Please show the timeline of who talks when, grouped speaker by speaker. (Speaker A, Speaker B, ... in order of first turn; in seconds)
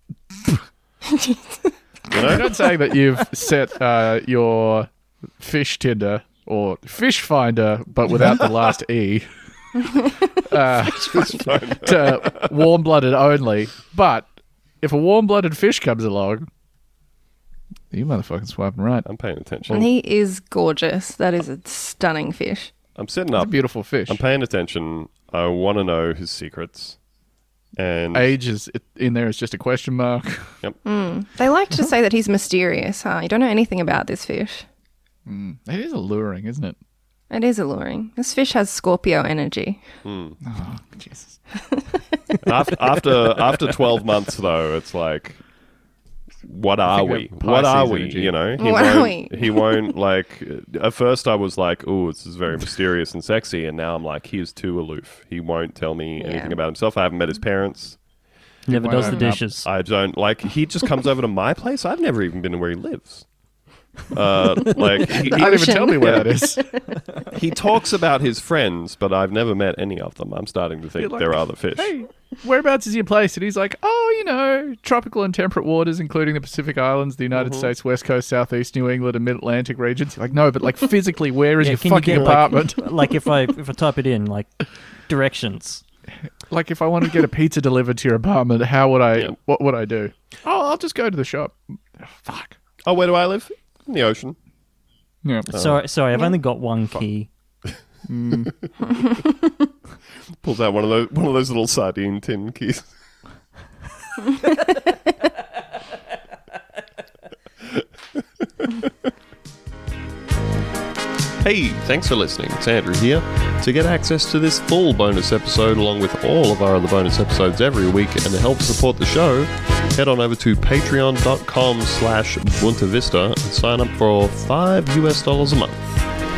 Speaker A: 1.1-1.4, 19.7-22.7, 30.8-34.6, 37.3-39.8, 48.6-49.9, 56.2-56.6, 59.0-59.3, 65.3-66.8
Speaker B: 2.1-2.5, 11.1-12.5, 19.1-19.9, 23.0-27.0, 27.8-28.3, 40.0-40.4, 42.4-45.4, 46.4-58.0, 59.5-63.3, 64.1-66.3, 67.3-71.9, 77.3-77.7, 92.8-94.4, 95.5-95.8, 100.4-102.9, 111.4-126.0
Speaker C: 2.3-4.9, 5.4-9.3, 10.4-14.3, 14.8-16.5, 17.9-19.1, 23.3-24.2, 28.1-30.6, 35.2-36.8, 40.4-41.4, 46.9-48.4, 58.7-59.3, 65.0-66.6, 71.0-82.9, 86.5-92.6, 98.1-98.5
Speaker D: 58.7-59.7, 81.6-84.6, 85.1-85.8, 95.5-97.3